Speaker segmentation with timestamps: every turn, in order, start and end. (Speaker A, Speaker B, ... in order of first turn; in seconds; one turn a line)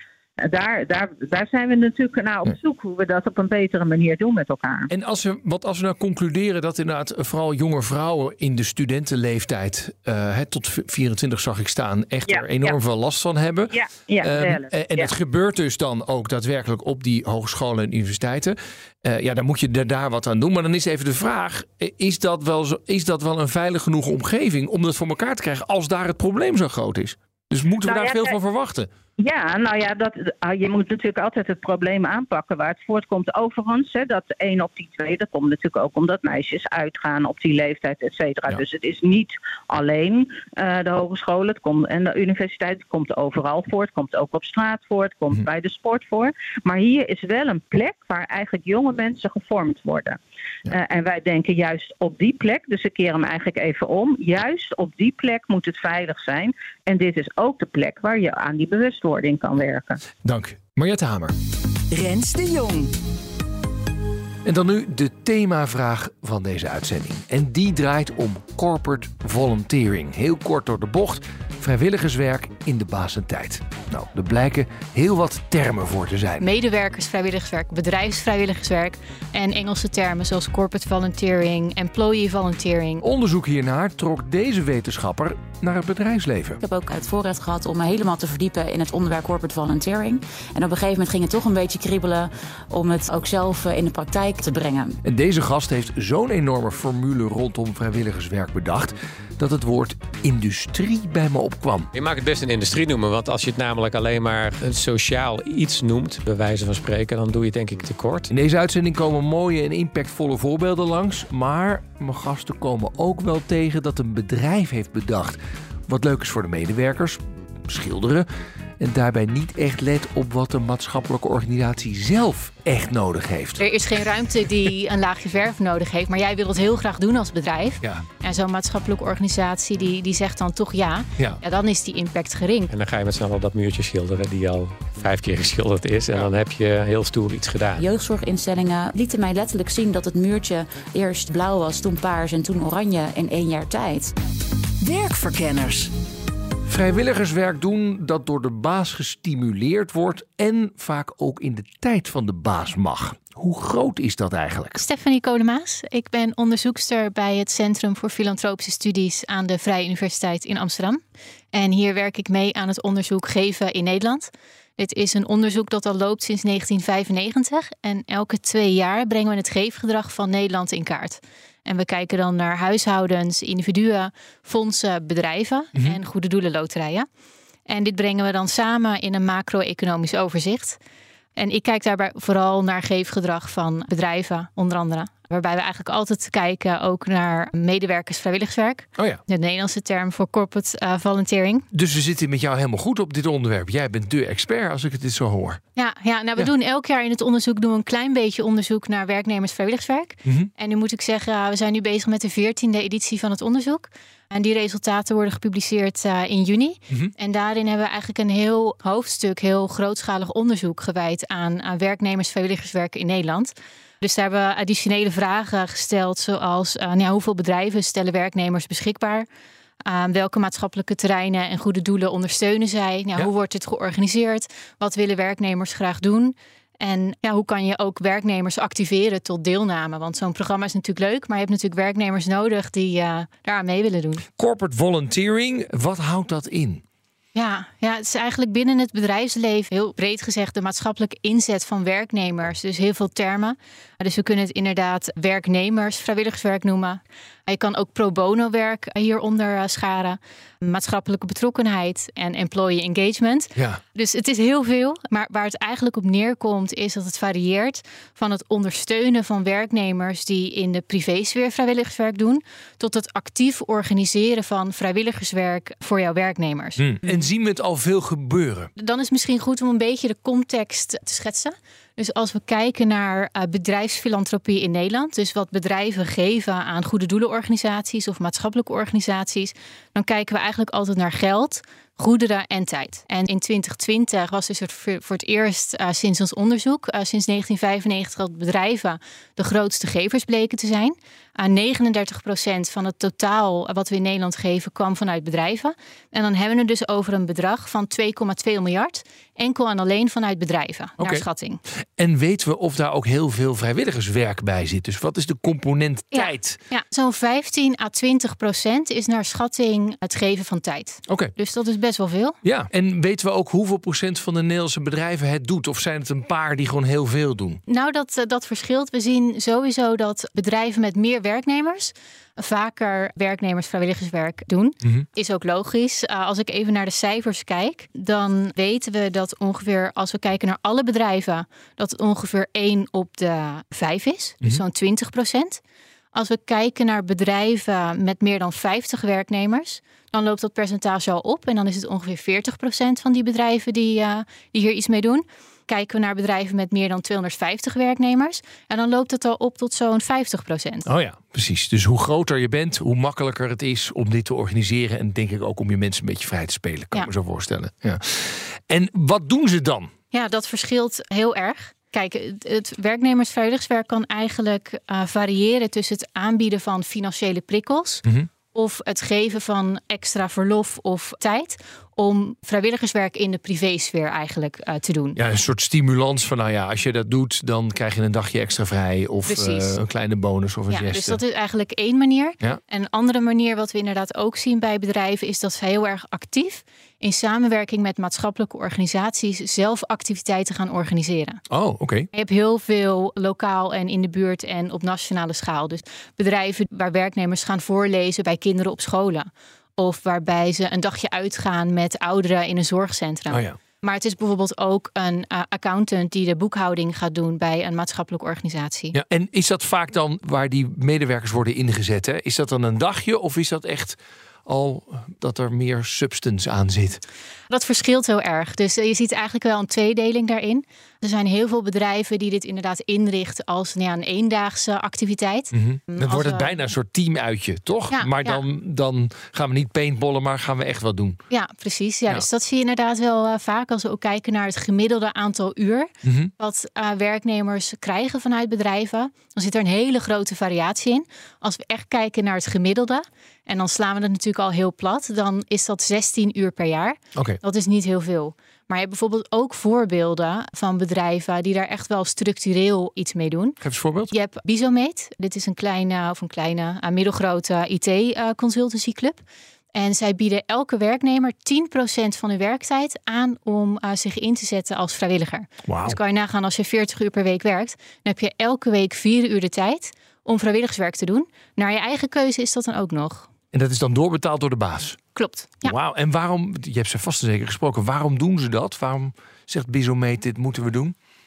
Speaker A: 0.4-4.9
Speaker B: 4.9-28.9
Speaker A: 12.3-12.8
Speaker A: 13.7-15.1
Speaker A: 27.8-28.4
Speaker A: 29.2-60.0
Speaker B: 60.2-61.3
Speaker C: 61.9-62.9
Speaker B: 64.4-76.5
Speaker D: 76.4-83.0
Speaker B: 83.0-86.6
Speaker E: 86.6-95.0
Speaker B: 95.0-101.9
Speaker F: 101.9-108.3
Speaker B: 108.3-118.3
Speaker B: 118.8-123.7
Speaker D: 123.6-132.7
Speaker B: 127.8-128.1
Speaker F: 132.7-137.8
Speaker E: 137.8-144.1
Speaker C: 144.8-145.9
Speaker B: 146.7-154.8
Speaker D: 154.8-161.0
Speaker D: 161.5-177.1
Speaker B: 175.7-176.0
Speaker D: 177.7-180.8
Speaker D: 181.3-191.7
Speaker B: 189.0-189.2
Speaker B: 191.7-195.6
Speaker D: 195.8-219.3
Speaker B: 200.2-200.5
Speaker D: 219.8-234.2
Speaker B: 234.3-236.8
Speaker D: 237.3-267.2
Speaker B: 266.8-268.7
Speaker D: 268.8-301.6
Speaker B: 301.0-301.2
Speaker B: 302.0-306.6
Speaker D: 306.1-312.4
Speaker B: 311.1-311.3
Speaker B: 312.4-317.6
Speaker D: 317.7-335.6
Speaker D: 336.1-350.8
Speaker B: 350.9-359.9
Speaker D: 360.1-375.2
Speaker B: 375.1-381.2
Speaker D: 379.3-379.8
Speaker D: 380.7-391.4
Speaker B: 391.5-392.1
Speaker D: 392.1-408.9
Speaker B: 403.3-403.6
Speaker B: 408.9-417.0
Speaker D: 417.5-426.5
Speaker B: 425.5-431.2
Speaker D: 427.9-428.4
Speaker D: 431.3-459.2
Speaker B: 436.0-436.3
Speaker B: 453.6-454.1
Speaker D: 459.7-473.3
Speaker B: 465.7-466.0
Speaker B: 473.5-475.0
Speaker D: 475.1-475.7
Speaker B: 475.6-480.9